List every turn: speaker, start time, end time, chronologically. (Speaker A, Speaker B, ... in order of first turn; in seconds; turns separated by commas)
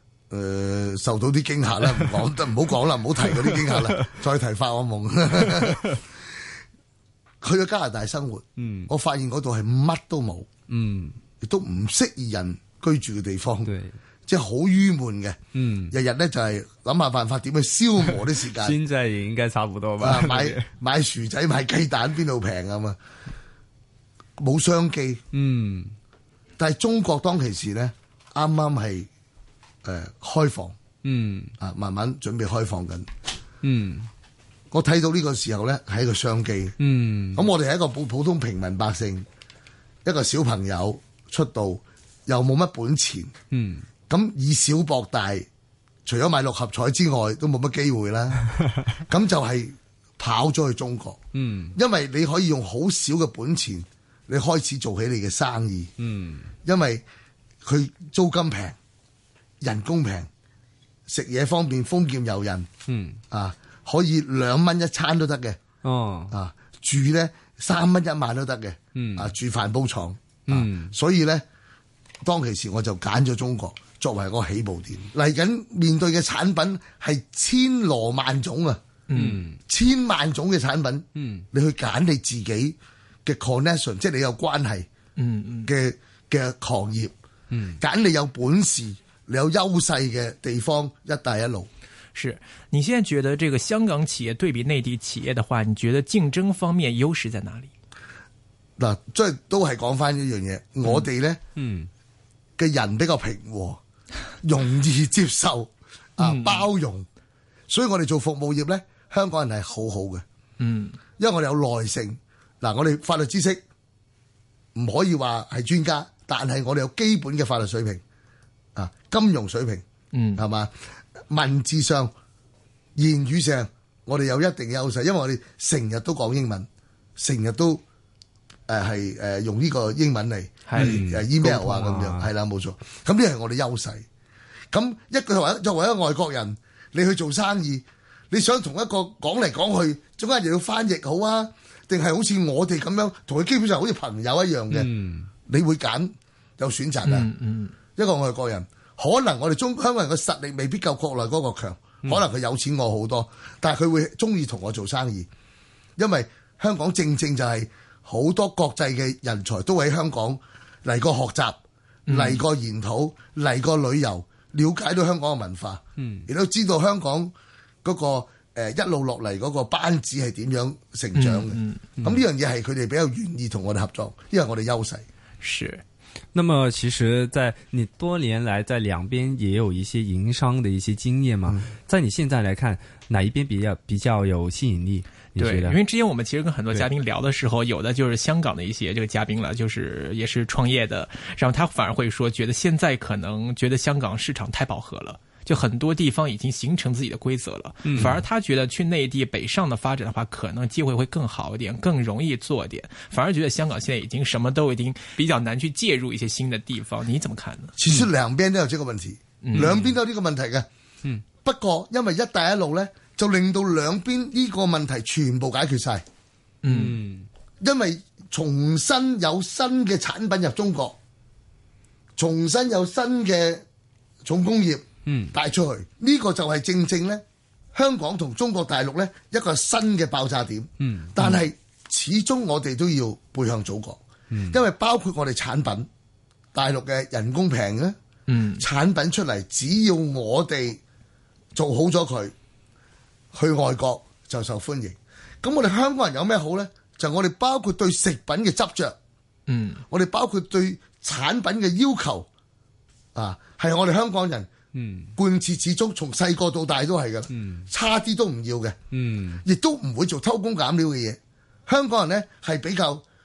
Speaker A: 0.3-6.0, Speaker B: 3.5-4.1, Speaker B: 5.5-5.9, Speaker A: 7.4-10.5, Speaker B: 8.6-8.9, Speaker B: 10.7-11.2, Speaker A: 11.4-13.7, Speaker B: 13.7-13.9, Speaker A: 14.3-15.4, Speaker B: 15.5-16.0, Speaker A: 15.9-18.8, Speaker B: 18.6-20.7, Speaker A: 20.0-23.0, Speaker A: 24.4-25.2, Speaker B: 25.3-25.9, Speaker A: 26.6-29.1, Speaker A: 29.8-30.8, Speaker B: 31.0-31.5, Speaker A: 31.6-33.1, Speaker B: 33.6-34.1, Speaker A: 34.7-36.8, Speaker B: 36.8-37.5, Speaker A: 37.3-39.3, Speaker A: 40.0-43.3, Speaker B: 43.5-43.9, Speaker A: 44.1-45.5, Speaker A: 46.0-51.2, Speaker B: 51.3-51.8, Speaker A: 51.7-55.9, Speaker B: 56.0-56.5, Speaker A: 56.6-57.0, Speaker A: 57.6-58.8, Speaker A: 59.6-60.3, Speaker A: 61.1-62.7, Speaker B: 62.9-63.2, Speaker A: 63.3-65.6, Speaker B: 65.8-66.3, Speaker A: 66.3-71.5, Speaker B: 69.0-69.3, Speaker B: 70.5-70.9, Speaker A: 72.2-78.8, Speaker C: 79.1-79.4, Speaker B: 79.1-79.6, Speaker A: 79.7-84.9, Speaker B: 81.2-81.5, Speaker C: 85.2-85.7, Speaker A: 85.7-87.1, Speaker B: 87.5-87.8, Speaker A: 87.8-91.7, Speaker C: 92.2-97.7, Speaker A: 98.8-101.4, Speaker B: 101.6-101.9, Speaker A: 102.6-103.8, Speaker A: 104.4-107.1, Speaker C: 106.2-106.7, Speaker A: 107.7-110.2, Speaker C: 110.6-111.0, Speaker A: 111.2-113.6, Speaker A: 114.8-118.0, Speaker A: 118.8-119.8, Speaker C: 120.1-120.4, Speaker A: 120.3-120.7, Speaker A: 121.3-122.1, Speaker A: 123.0-127.8, Speaker A: 128.7-134.1, Speaker C: 130.7-131.0, Speaker B: 130.8-132.3, Speaker A: 134.7-144.9, Speaker B: 144.7-145.3, Speaker A: 145.5-147.3, Speaker C: 147.0-147.7, Speaker A: 148.0-155.3, Speaker A: 156.0-167.3, Speaker C: 162.1-162.4, Speaker B: 166.0-166.3, Speaker A: 167.8-175.1, Speaker C: 171.2-171.8, Speaker B: 172.0-172.2, Speaker C: 175.4-175.8, Speaker B: 176.3-185.8, Speaker C: 185.4-208.0, Speaker B: 197.8-198.2, Speaker A: 207.8-210.7, Speaker C: 209.4-209.8, Speaker B: 209.6-209.9, Speaker A: 211.4-216.0, Speaker C: 216.6-217.0, Speaker B: 216.7-217.3, Speaker A: 217.6-221.0, Speaker A: 222.2-223.6, Speaker A: 224.2-227.2, Speaker B: 225.1-225.3, Speaker A: 227.7-235.9, Speaker B: 230.8-231.1, Speaker B: 234.3-234.6, Speaker A: 236.5-238.0, Speaker C: 238.3-238.7, Speaker A: 238.6-240.8, Speaker A: 241.5-242.3, Speaker A: 243.3-249.0, Speaker C: 249.5-249.8, Speaker A: 249.9-252.3, Speaker A: 253.2-254.5, Speaker B: 254.7-255.1, Speaker A: 255.2-258.8, Speaker B: 257.3-257.7, Speaker B: 258.9-259.4, Speaker A: 259.4-263.0